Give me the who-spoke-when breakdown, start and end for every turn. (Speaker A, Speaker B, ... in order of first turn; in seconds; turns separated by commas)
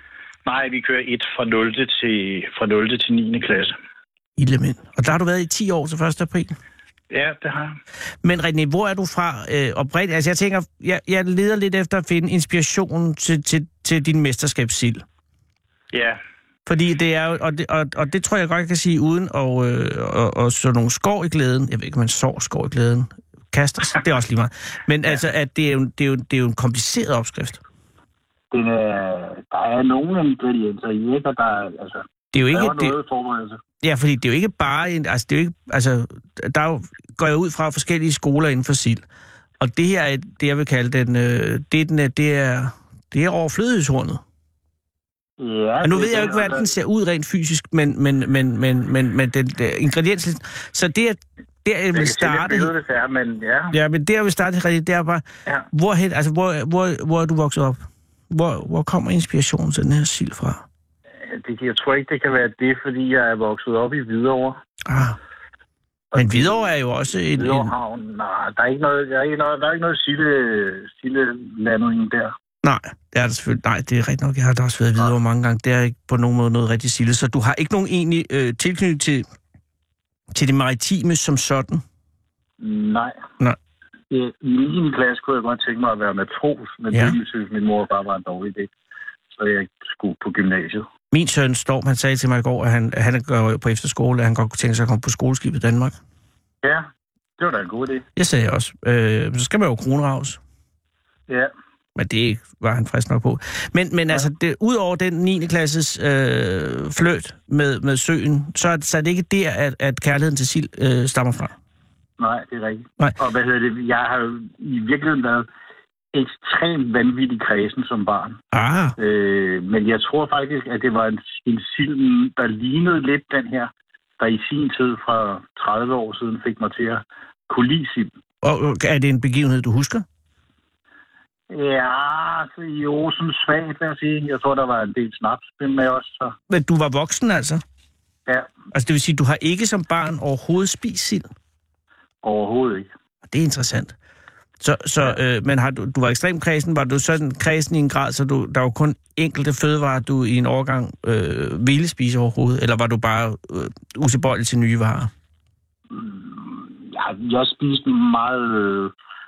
Speaker A: 0.5-3.8, Speaker B: 4.4-6.5, Speaker A: 7.1-7.8, Speaker B: 8.2-15.0, Speaker A: 15.9-16.2, Speaker B: 16.7-27.6, Speaker A: 28.5-33.6, Speaker B: 32.3-32.9, Speaker B: 33.8-39.0, Speaker B: 39.6-44.2, Speaker A: 45.4-46.7, Speaker B: 45.8-52.7, Speaker A: 51.9-53.8, Speaker B: 53.7-57.8, Speaker B: 58.3-60.6, Speaker A: 61.2-64.6, Speaker B: 64.9-65.2, Speaker A: 66.1-66.7, Speaker B: 66.2-67.7, Speaker A: 67.3-72.3, Speaker B: 72.6-79.3, Speaker B: 80.3-81.8, Speaker A: 82.6-83.2, Speaker A: 84.1-88.7, Speaker A: 89.3-90.9, Speaker B: 91.1-96.0, Speaker A: 97.4-98.0, Speaker B: 98.2-100.4, Speaker B: 102.0-111.5, Speaker A: 112.2-115.5, Speaker A: 116.1-118.4, Speaker B: 118.5-119.0, Speaker A: 119.0-128.1, Speaker B: 128.4-130.0, Speaker A: 131.5-136.3, Speaker B: 136.5-137.6, Speaker B: 138.7-141.3, Speaker A: 142.2-142.9, Speaker B: 143.3-143.9, Speaker B: 144.6-155.1, Speaker A: 155.9-158.9